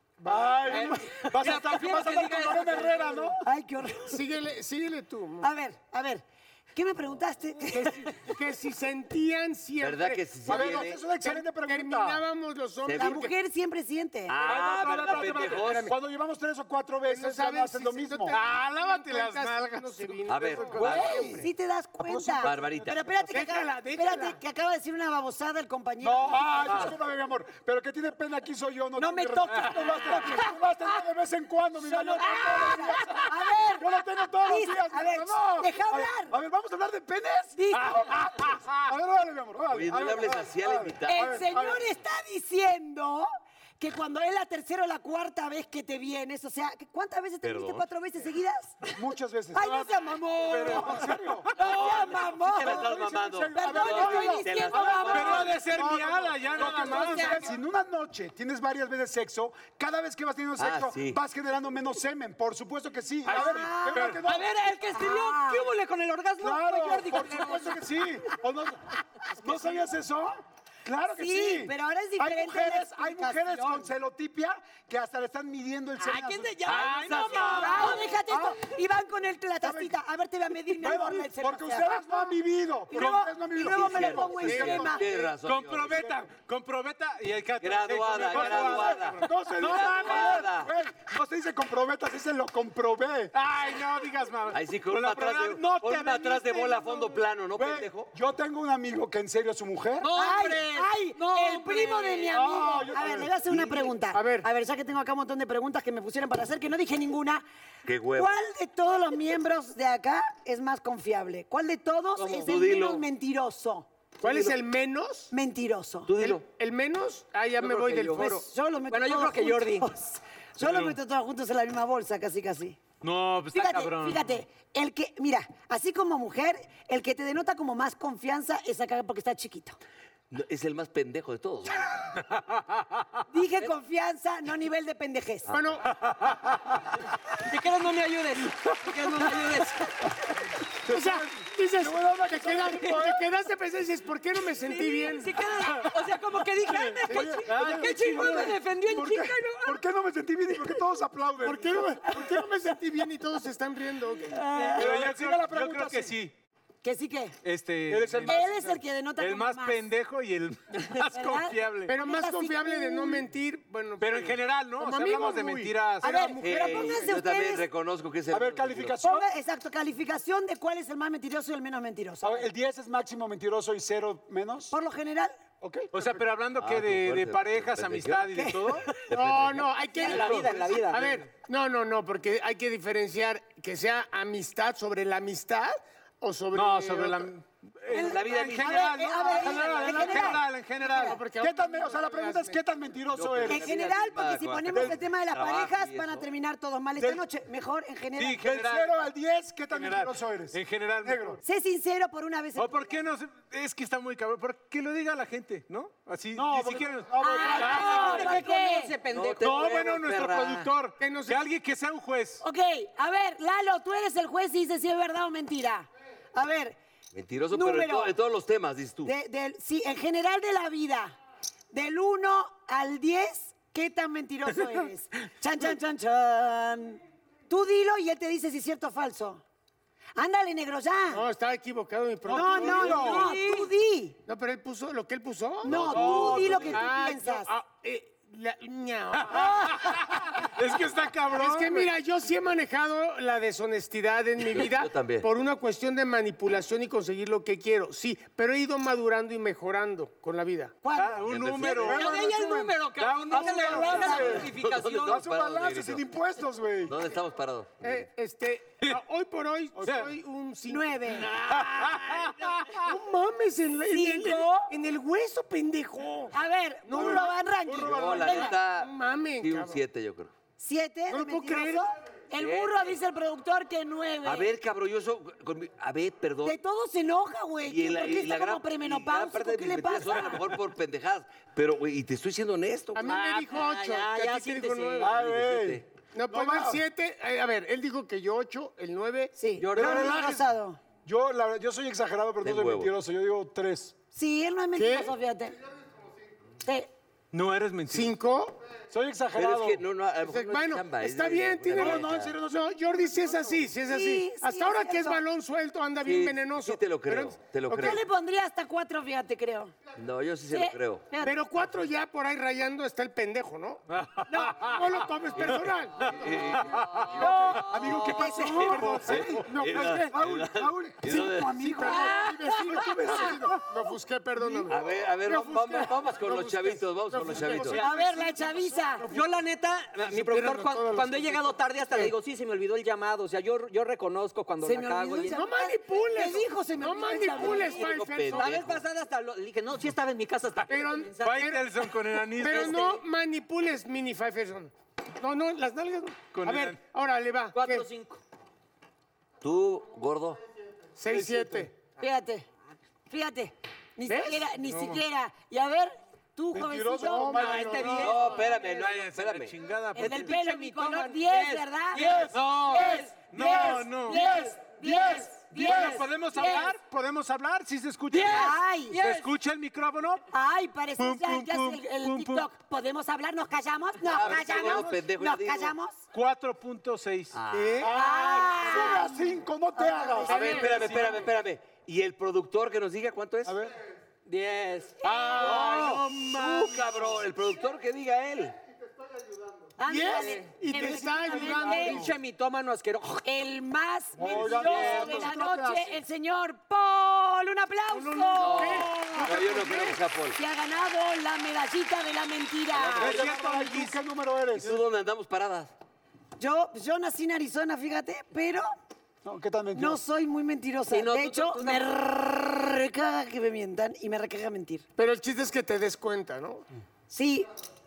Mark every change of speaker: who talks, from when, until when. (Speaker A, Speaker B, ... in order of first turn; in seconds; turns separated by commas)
Speaker A: 0.2-3.4, Speaker B: 0.7-3.1, Speaker C: 3.4-4.2, Speaker D: 4.0-5.5, Speaker C: 5.4-8.2, Speaker D: 7.7-13.3, Speaker E: 9.8-11.0, Speaker A: 10.4-12.2, Speaker E: 12.8-13.2, Speaker C: 12.9-14.3, Speaker E: 14.3-15.9, Speaker A: 14.4-18.4, Speaker D: 17.1-21.5, Speaker F: 18.3-20.2, Speaker E: 20.3-21.4, Speaker A: 20.7-21.1, Speaker C: 20.8-26.9, Speaker A: 22.0-22.7, Speaker E: 22.4-23.0, Speaker D: 23.2-24.4, Speaker A: 26.0-41.8, Speaker C: 29.0-30.6, Speaker C: 31.8-36.3, Speaker C: 37.5-38.5, Speaker E: 39.7-41.4, Speaker C: 41.1-43.3, Speaker C: 43.8-48.9, Speaker E: 47.4-47.8, Speaker A: 48.9-49.9, Speaker C: 49.5-53.0, Speaker F: 50.5-50.9, Speaker A: 50.5-51.5, Speaker E: 51.6-55.6, Speaker A: 52.5-64.5, Speaker C: 53.5-55.5, Speaker B: 53.8-55.5, Speaker F: 55.1-57.5, Speaker B: 56.5-57.4, Speaker E: 60.6-61.2, Speaker C: 63.2-64.2, Speaker F: 63.4-64.2, Speaker B: 64.2-67.9, Speaker C: 64.9-65.6, Speaker A: 66.4-76.7, Speaker C: 71.2-73.9, Speaker B: 76.0-78.2, Speaker D: 76.7-77.8, Speaker E: 76.7-77.5, Speaker C: 77.4-82.3, Speaker A: 78.3-78.5, Speaker A: 79.6-80.0, Speaker A: 80.7-85.0, Speaker C: 82.9-85.0, Speaker E: 83.6-86.2, Speaker D: 84.4-85.2, Speaker F: 85.4-90.5, Speaker E: 87.6-90.7, Speaker A: 88.3-93.3, Speaker F: 93.3-97.2, Speaker E: 94.5-98.1, Speaker A: 97.6-100.1, Speaker B: 100.0-102.3, Speaker C: 100.1-107.4, Speaker A: 102.3-103.8, Speaker D: 104.1-104.5, Speaker E: 107.8-108.3, Speaker C: 108.1-114.5, Speaker E: 112.2-113.0, Speaker D: 114.2-115.3, Speaker C: 115.3-116.1, Speaker E: 116.1-116.4, Speaker D: 116.2-118.5, Speaker B: 117.6-119.9, Speaker C: 118.1-122.8, Speaker F: 120.6-121.0, Speaker F: 123.0-124.3, Speaker C: 123.5-129.8, Speaker E: 130.3-132.0, Speaker F: 132.3-133.0, Speaker C: 133.3-135.5, Speaker D: 135.5-135.9, Speaker F: 136.1-136.3, Speaker B: 137.4-140.2, Speaker A: 140.8-143.2, Speaker D: 140.9-145.3, Speaker B: 144.7-149.8, Speaker A: 147.1-152.1, Speaker D: 147.1-147.3, Speaker F: 147.4-148.5, Speaker D: 151.4-154.5, Speaker C: 154.3-154.9, Speaker A: 154.7-156.2, Speaker F: 154.7-156.3, Speaker C: 156.8-157.4, Speaker F: 157.4-158.5, Speaker A: 157.9-158.8, Speaker C: 158.2-159.8, Speaker F: 159.2-161.9, Speaker C: 161.1-163.3, Speaker D: 161.9-167.2, Speaker F: 164.0-166.3, Speaker C: 166.0-167.7, Speaker E: 166.4-168.9, Speaker A: 168.3-169.3, Speaker C: 169.0-172.4, Speaker A: 172.2-174.7, Speaker C: 174.7-175.3, Speaker A: 175.6-176.2, Speaker F: 175.9-179.0, Speaker E: 176.5-178.3, Speaker C: 178.3-179.0, Speaker D: 179.1-187.3, Speaker E: 179.1-179.7, Speaker B: 180.0-181.2, Speaker C: 180.0-180.3, Speaker F: 186.5-191.2, Speaker C: 187.9-191.2, Speaker E: 188.0-189.2, Speaker A: 189.8-190.3, Speaker D: 190.8-192.6, Speaker A: 191.3-193.7, Speaker E: 193.1-196.2, Speaker C: 193.4-198.4, Speaker A: 194.7-195.0, Speaker A: 197.0-197.2, Speaker F: 198.2-198.9, Speaker A: 198.4-201.4, Speaker F: 199.7-201.4, Speaker C: 201.4-202.9, Speaker F: 202.6-208.4, Speaker A: 206.3-208.4, Speaker C: 207.2-208.9, Speaker B: 207.4-209.5, Speaker E: 209.1-210.7, Speaker F: 209.4-212.4, Speaker D: 211.0-211.4, Speaker C: 212.4-216.8, Speaker E: 217.1-219.1, Speaker C: 217.5-218.2, Speaker C: 219.0-221.2, Speaker C: 221.7-229.4, Speaker C: 230.2-231.2, Speaker D: 231.1-233.3, Speaker A: 232.2-233.3, Speaker C: 232.3-234.2, Speaker B: 232.9-233.7, Speaker D: 234.2-240.0, Speaker C: 235.6-237.5, Speaker E: 235.7-236.5, Speaker A: 235.9-236.7, Speaker F: 236.2-236.7, Speaker C: 239.3-239.8, Speaker F: 240.4-241.9, Speaker D: 241.3-250.8, Speaker E: 244.5-245.3, Speaker C: 250.8-251.9, Speaker F: 250.9-252.3, Speaker E: 251.3-251.8, Speaker B: 251.7-255.2, Speaker A: 251.8-252.8, Speaker F: 253.0-254.4, Speaker A: 253.3-257.0, Speaker C: 253.8-254.5, Speaker E: 254.6-256.0, Speaker E: 256.9-258.1, Speaker D: 257.8-266.3, Speaker F: 259.8-260.1, Speaker C: 260.7-261.4, Speaker F: 261.5-262.9, Speaker C: 263.9-264.7, Speaker C: 266.3-268.6, Speaker D: 266.9-267.4, Speaker A: 266.9-268.4, Speaker E: 267.8-270.3, Speaker D: 268.2-269.8, Speaker C: 270.6-274.5, Speaker D: 271.1-271.9, Speaker E: 272.4-273.0, Speaker E: 274.2-276.6, Speaker C: 276.4-280.5, Speaker E: 277.6-283.1, Speaker D: 282.9-285.1, Speaker B: 283.0-285.1, Speaker A: 285.0-286.8, Speaker E: 285.1-285.8, Speaker D: 286.1-289.3, Speaker C: 289.4-290.8, Speaker B: 289.6-290.1, Speaker A: 289.7-290.5, Speaker A: 291.0-293.9, Speaker E: 292.4-292.9, Speaker C: 294.1-295.6, Speaker D: 294.7-295.1, Speaker C: 296.6-296.9, Speaker F: 297.3-298.1, Speaker D: 297.9-298.6, Speaker A: 298.9-299.8, Speaker E: 299.3-302.3, Speaker D: 300.2-308.0, Speaker A: 301.7-303.7, Speaker C: 303.9-305.2, Speaker E: 306.0-308.0, Speaker C: 307.7-309.7, Speaker E: 309.9-311.1, Speaker C: 310.5-311.4, Speaker D: 311.2-313.8, Speaker F: 313.9-314.9, Speaker C: 314.3-314.6, Speaker D: 314.5-316.2, Speaker E: 315.4-317.2, Speaker F: 316.6-317.1, Speaker A: 317.1-323.6, Speaker C: 317.2-319.0, Speaker E: 317.8-321.6, Speaker D: 321.6-329.1, Speaker B: 321.9-322.5, Speaker E: 324.7-327.8, Speaker C: 327.8-329.1, Speaker B: 329.1-335.4, Speaker D: 330.0-332.1, Speaker C: 334.6-337.9, Speaker D: 335.2-338.5, Speaker E: 337.4-338.8, Speaker B: 338.3-341.5, Speaker D: 340.7-341.7, Speaker F: 341.2-342.9, Speaker D: 342.3-347.9, Speaker B: 342.4-343.0, Speaker F: 346.3-346.8, Speaker B: 347.5-348.2, Speaker E: 349.4-350.4, Speaker D: 350.9-351.8, Speaker F: 351.1-351.5, Speaker C: 352.0-352.4, Speaker C: 353.1-358.2, Speaker D: 354.1-354.5, Speaker F: 354.6-355.0, Speaker A: 356.5-358.1, Speaker D: 357.0-358.4, Speaker B: 357.6-358.2, Speaker E: 358.0-359.6, Speaker F: 358.5-360.4, Speaker B: 359.9-363.3, Speaker C: 359.9-366.7, Speaker A: 361.9-365.7, Speaker F: 362.3-364.3, Speaker F: 365.4-370.2, Speaker B: 365.7-366.7, Speaker B: 368.1-369.3, Speaker C: 368.1-369.0, Speaker C: 370.3-376.0, Speaker F: 371.0-372.5, Speaker E: 374.1-375.7, Speaker F: 376.1-377.4, Speaker E: 377.3-377.9, Speaker A: 377.8-380.7, Speaker C: 377.8-379.2, Speaker C: 379.8-380.6, Speaker E: 380.3-383.6, Speaker D: 380.3-380.7, Speaker F: 380.6-381.2, Speaker A: 383.4-383.7, Speaker B: 384.2-385.0, Speaker C: 385.0-385.6, Speaker F: 385.0-387.1, Speaker E: 385.3-388.6, Speaker C: 389.8-392.0, Speaker D: 389.9-392.1, Speaker B: 390.0-393.2, Speaker C: 393.2-403.3, Speaker A: 394.1-395.8, Speaker B: 394.5-395.1, Speaker F: 394.7-395.2, Speaker D: 397.9-399.6, Speaker E: 398.3-400.4, Speaker E: 402.7-403.1, Speaker A: 403.0-404.8, Speaker F: 403.0-403.9, Speaker E: 404.5-405.7, Speaker C: 406.4-408.7, Speaker A: 409.2-410.0, Speaker C: 409.7-414.8, Speaker B: 410.9-411.9, Speaker D: 415.0-416.6, Speaker C: 417.1-417.5